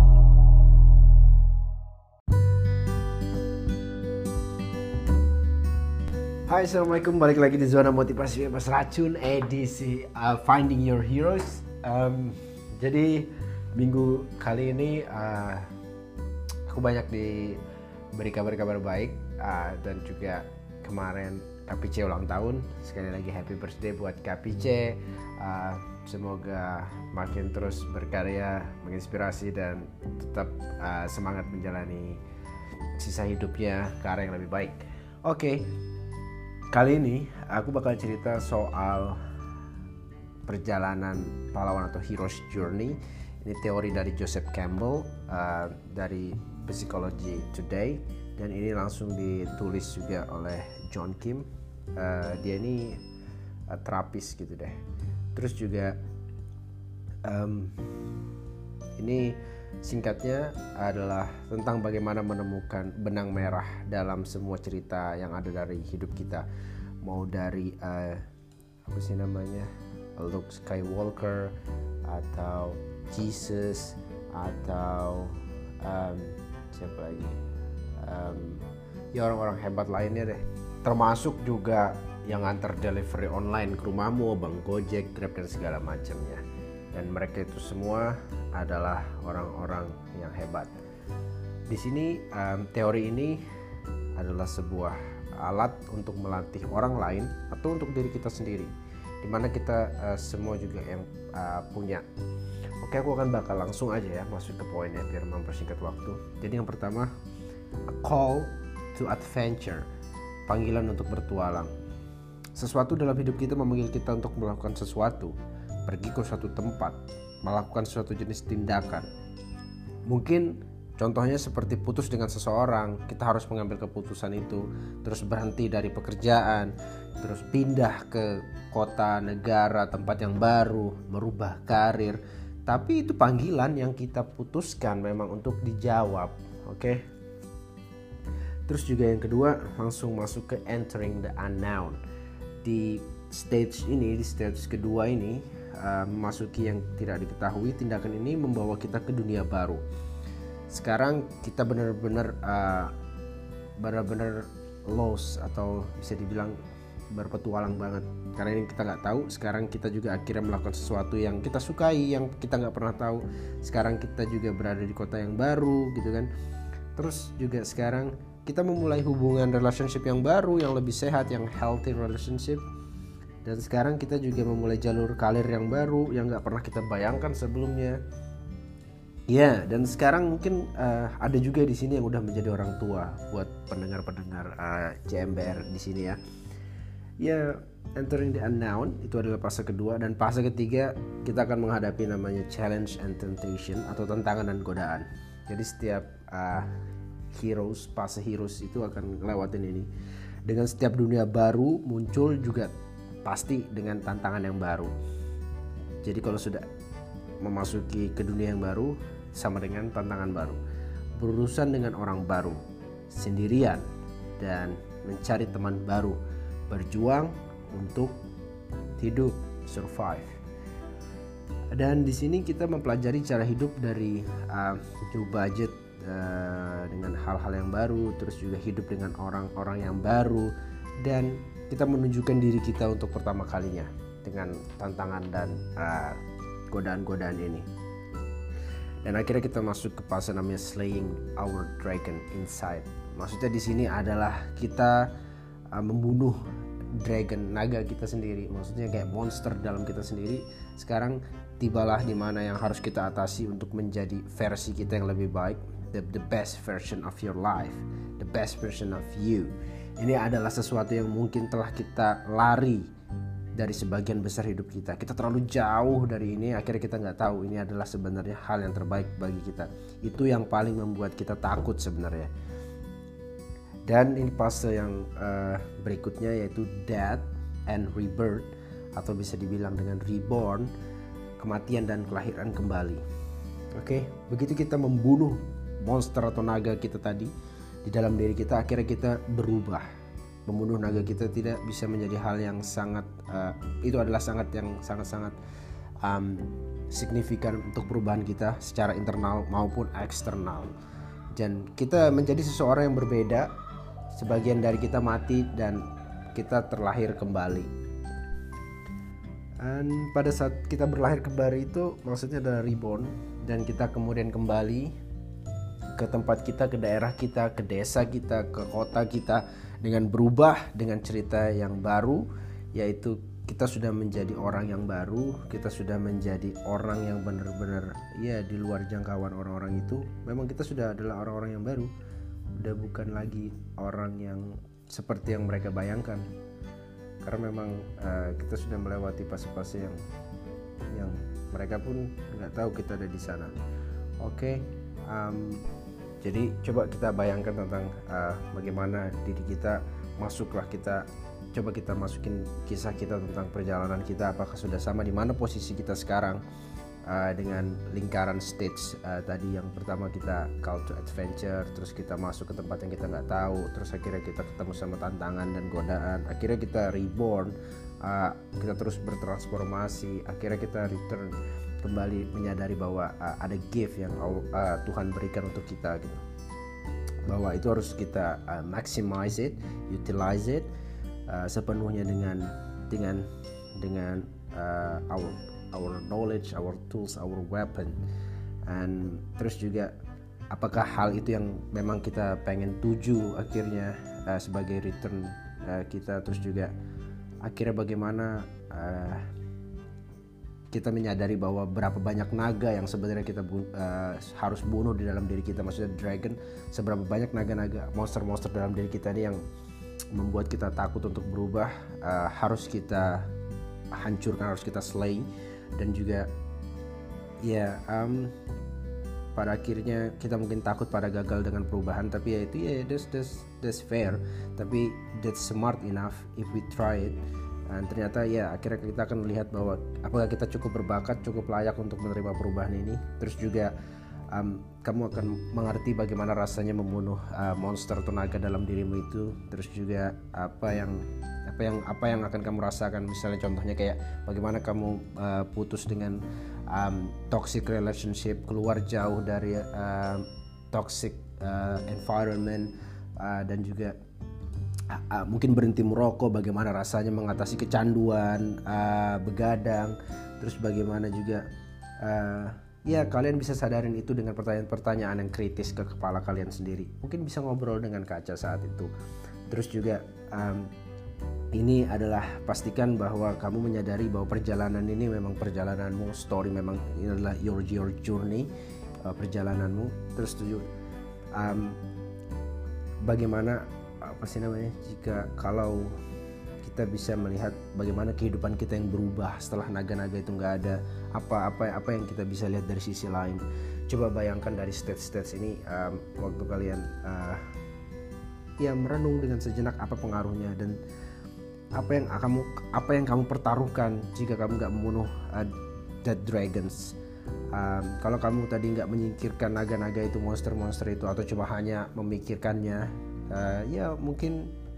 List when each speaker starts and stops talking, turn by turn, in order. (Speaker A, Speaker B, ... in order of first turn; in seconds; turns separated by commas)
Speaker A: 6.5-15.7, Speaker A: 16.7-17.6, Speaker A: 18.1-32.2, Speaker A: 33.0-35.7, Speaker A: 36.7-39.2, Speaker A: 40.5-51.5, Speaker A: 52.0-53.0, Speaker A: 53.7-54.8, Speaker A: 55.3-56.0, Speaker A: 57.2-57.8, Speaker A: 59.0-66.4, Speaker A: 67.0-68.2, Speaker A: 68.8-71.5, Speaker A: 72.0-77.4, Speaker A: 78.0-86.4, Speaker A: 86.9-90.7, Speaker A: 91.7-93.4, Speaker A: 94.2-102.0, Speaker A: 102.8-107.1, Speaker A: 107.9-109.9, Speaker A: 110.5-111.7, Speaker A: 112.5-115.3, Speaker A: 115.8-119.1, Speaker A: 120.1-137.0, Speaker A: 138.7-142.0, Speaker A: 142.6-149.8, Speaker A: 150.7-152.9, Speaker A: 153.8-156.6, Speaker A: 157.1-166.3, Speaker A: 166.9-172.6, Speaker A: 173.4-178.0, Speaker A: 179.3-186.2, Speaker A: 187.2-196.7, Speaker A: 197.3-199.9, Speaker A: 200.4-202.7, Speaker A: 203.2-204.9, Speaker A: 206.0-206.6, Speaker A: 207.4-210.6, Speaker A: 211.2-213.8, Speaker A: 214.4-216.2, Speaker A: 216.7-218.1, Speaker A: 219.0-220.3, Speaker A: 221.7-236.2, Speaker A: 236.7-237.7, Speaker A: 239.0-245.1, Speaker A: 245.7-246.4, Speaker A: 246.9-262.9, Speaker A: 263.5-272.3, Speaker A: 273.8-280.7, Speaker A: 281.4-283.0, Speaker A: 283.8-287.3, Speaker A: 287.8-289.8, Speaker A: 290.5-295.3, Speaker A: 296.0-300.7, Speaker A: 301.3-303.5, Speaker A: 304.1-307.7, Speaker A: 309.6-314.9, Speaker A: 316.0-331.9, Speaker A: 332.5-336.2, Speaker A: 337.2-340.0, Speaker A: 340.9-343.5, Speaker A: 344.2-345.7, Speaker A: 346.2-356.4, Speaker A: 357.1-376.2, Speaker A: 377.2-380.7, Speaker A: 381.3-383.2, Speaker A: 383.8-388.0, Speaker A: 388.6-389.9, Speaker A: 390.5-396.7, Speaker A: 397.4-399.2, Speaker A: 400.7-409.4, Speaker A: 410.1-413.2, Speaker A: 413.9-416.3, Speaker A: 417.4-418.3, Speaker A: 419.3-433.7, Speaker A: 434.3-453.9, Speaker A: 454.9-461.4, Speaker A: 462.0-468.9, Speaker A: 469.5-470.7, Speaker A: 471.5-478.5, Speaker A: 479.0-480.7, Speaker A: 481.3-481.8, Speaker A: 483.0-485.9, Speaker A: 486.6-497.4, Speaker A: 498.6-500.8, Speaker A: 501.8-506.9, Speaker A: 507.5-514.5